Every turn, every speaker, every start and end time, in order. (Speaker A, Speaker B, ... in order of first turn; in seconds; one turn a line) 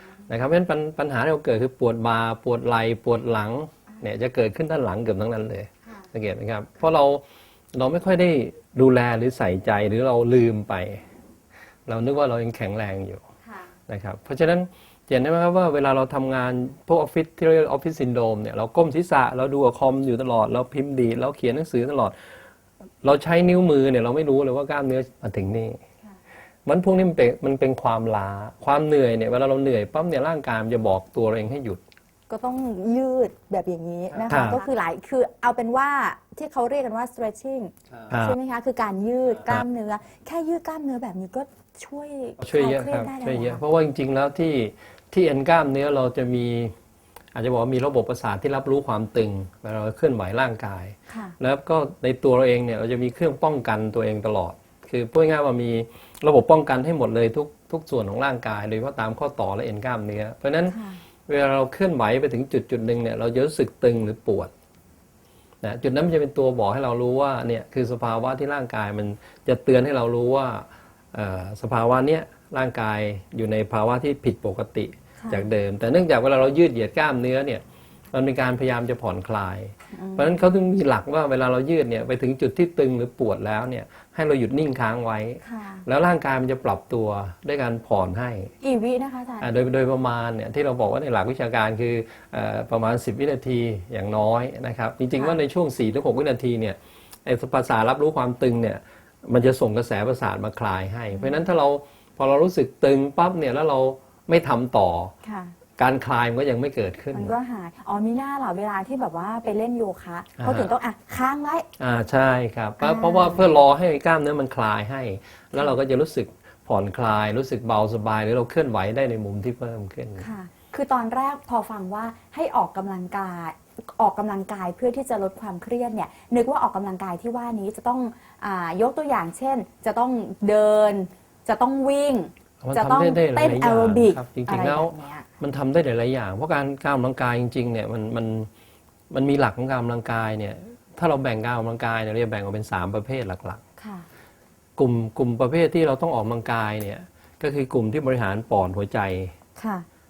Speaker A: 0.3-11.0
Speaker A: 11.9-13.2
Speaker A: 13.9-22.1
Speaker A: 23.0-25.8
Speaker A: 26.6-31.8
Speaker B: 32.3-43.6
Speaker A: 34.3-34.6
Speaker A: 38.1-38.4
Speaker A: 42.4-46.7
Speaker A: 47.3-64.5
Speaker B: 51.1-51.3
Speaker B: 60.7-61.0
Speaker A: 65.6-88.5
Speaker B: 79.9-80.4
Speaker B: 85.4-85.8
Speaker B: 88.6-89.5
Speaker A: 89.4-105.1
Speaker B: 101.1-101.5
Speaker B: 105.2-105.5
Speaker A: 105.8-107.3
Speaker B: 107.1-111.7
Speaker A: 110.4-110.7
Speaker A: 111.8-120.3
Speaker B: 112.8-113.4
Speaker B: 120.2-135.3
Speaker A: 132.6-138.5
Speaker A: 139.1-143.6
Speaker B: 143.8-144.1
Speaker A: 144.8-149.3
Speaker B: 149.6-149.8